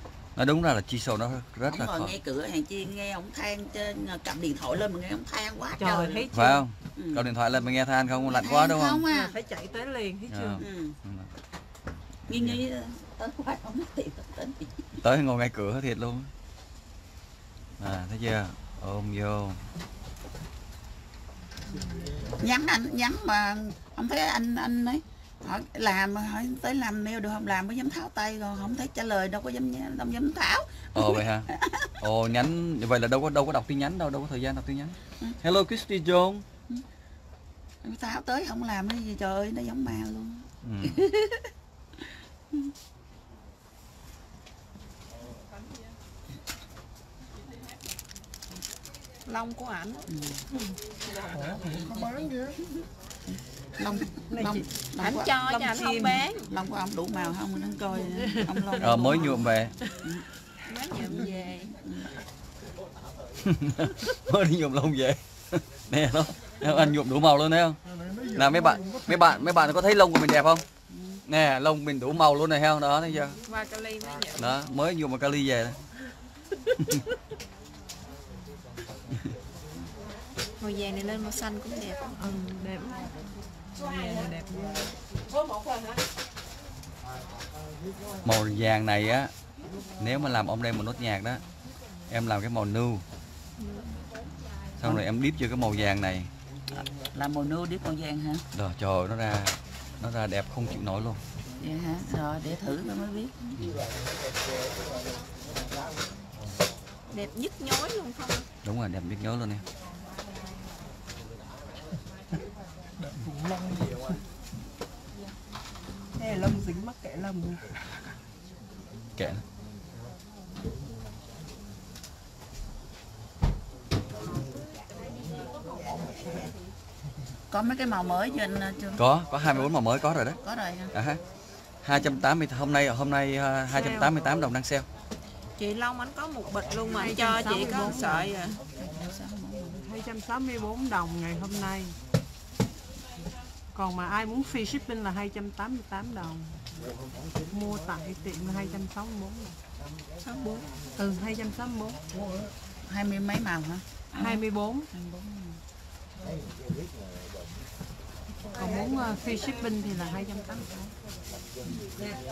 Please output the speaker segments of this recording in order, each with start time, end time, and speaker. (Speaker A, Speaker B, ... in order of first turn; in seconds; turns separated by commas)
Speaker A: 0.4-2.2, Speaker B: 1.6-6.3, Speaker C: 5.8-6.6, Speaker A: 6.3-9.0, Speaker B: 7.0-7.3, Speaker B: 8.3-9.3, Speaker C: 9.1-10.7, Speaker A: 10.3-11.3, Speaker B: 10.6-11.0, Speaker A: 12.3-12.6, Speaker B: 12.3-15.0, Speaker A: 15.0-16.3, Speaker A: 17.8-19.6, Speaker B: 22.4-31.9, Speaker A: 30.9-31.5, Speaker A: 32.0-36.5, Speaker B: 37.8-42.7, Speaker A: 40.6-41.0, Speaker D: 49.3-50.0, Speaker B: 50.1-50.4, Speaker E: 51.3-52.6, Speaker B: 53.3-55.5, Speaker C: 54.3-54.7, Speaker D: 55.0-56.5, Speaker B: 56.4-59.5, Speaker C: 57.9-59.4, Speaker A: 58.8-59.7, Speaker D: 60.7-61.8, Speaker B: 61.0-62.1, Speaker A: 63.5-67.8, Speaker B: 66.6-66.9, Speaker E: 67.9-69.7, Speaker A: 68.3-70.6, Speaker B: 70.9-71.2, Speaker A: 71.3-73.4, Speaker D: 73.5-74.5, Speaker A: 74.4-75.8, Speaker D: 80.6-82.2, Speaker C: 82.2-83.1, Speaker C: 83.9-84.7, Speaker A: 88.2-89.3, Speaker A: 90.0-91.4, Speaker A: 92.1-93.0, Speaker D: 93.6-94.0, Speaker A: 94.8-96.3, Speaker B: 96.7-98.4, Speaker A: 98.5-101.2, Speaker B: 101.6-103.6, Speaker D: 107.1-108.5, Speaker A: 108.6-109.6, Speaker E: 113.0-114.2, Speaker F: 116.2-118.1, Speaker A: 119.2-119.4, Speaker B: 127.5-129.0, Speaker A: 129.0-130.4, Speaker B: 130.4-130.9, Speaker A: 130.9-131.2, Speaker A: 131.8-134.9, Speaker B: 131.9-132.2, Speaker C: 133.7-134.1, Speaker D: 135.6-138.6, Speaker C: 136.9-138.3, Speaker B: 138.8-139.8, Speaker C: 139.8-141.9, Speaker C: 143.8-146.6, Speaker C: 147.5-149.6, Speaker D: 150.2-150.7, Speaker C: 151.0-152.0, Speaker B: 152.9-155.6, Speaker C: 154.1-154.9, Speaker C: 158.6-160.9